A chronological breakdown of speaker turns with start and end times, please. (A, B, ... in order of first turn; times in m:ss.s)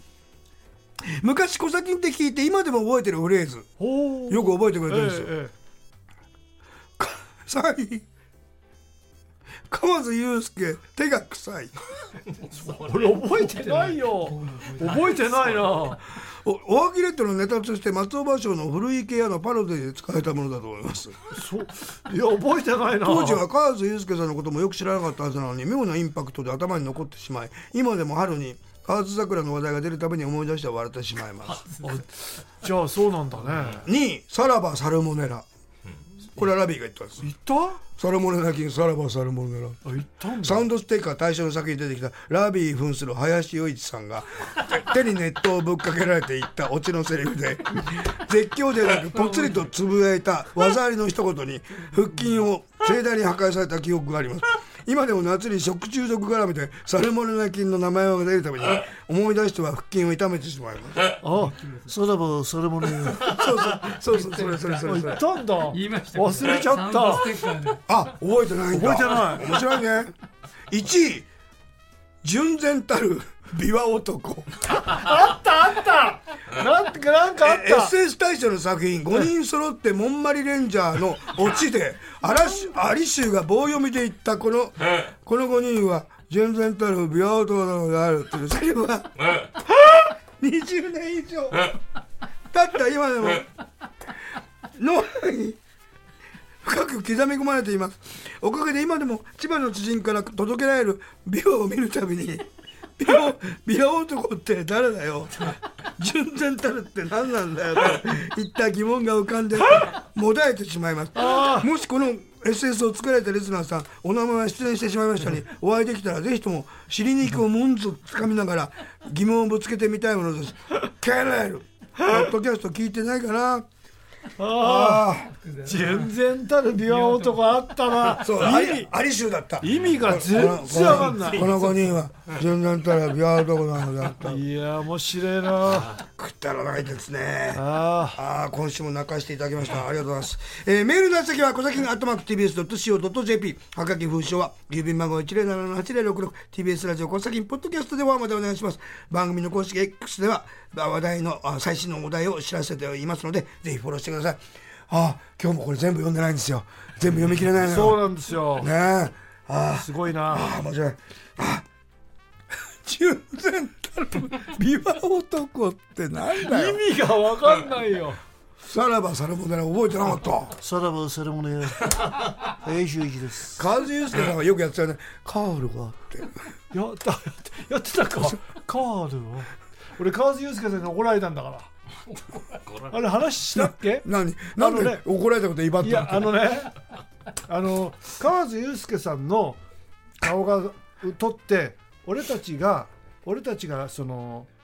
0:01.0-0:03.7 A
0:03.8-0:05.5 B
0:04.3-0:05.3 A
0:07.0-0:08.0 A
0:09.7-0:11.8 A
0:12.6-0:16.0 B
0:12.6-0:16.0 C
0:16.2-0:21.2 A
0:21.3-0:23.4 B
0:23.0-0:31.7 A
0:31.8-0:33.9 B
0:33.8-0:35.4 A
0:36.3-0:37.3 A
0:37.2-0:37.8 B
0:37.9-0:39.8 A
0:39.8-0:40.7 B
0:40.4-1:01.0 A
1:01.2-1:03.3 B
1:01.5-1:01.9 C
1:03.1-1:05.2 A
1:03.4-1:07.8 C
1:04.8-1:07.4 B
1:07.9-1:10.1 A
1:08.7-1:09.5 B
1:10.7-1:11.3 A
1:12.2-1:14.5 A
1:14.7-1:17.9 B
1:17.4-1:31.8 A
1:32.5-1:33.5 A
1:34.8-1:35.6 A
1:36.6-2:03.7 A
1:51.1-1:51.7 B
2:02.0-2:02.3 B
2:04.4-2:08.9 B
2:04.6-2:05.3 A
2:05.3-2:06.1 C
2:06.9-2:07.6 C
2:08.2-2:14.4 A
2:09.6-2:11.6 B
2:14.2-2:16.0 B
2:15.9-2:38.0 A
2:17.5-2:18.2 B
2:37.6-2:38.7 B
2:38.6-2:41.6 A
2:39.7-2:40.5 B
2:42.6-2:46.8 A
2:46.3-2:48.2 B
2:48.6-2:50.6 A
2:50.6-2:53.6 B
2:53.6-2:56.3 A
2:56.7-3:01.7 B
3:02.9-3:05.0 B
3:03.5-3:06.5 A
3:05.8-3:06.7 B
3:07.4-3:09.6 B
3:10.2-3:14.5 B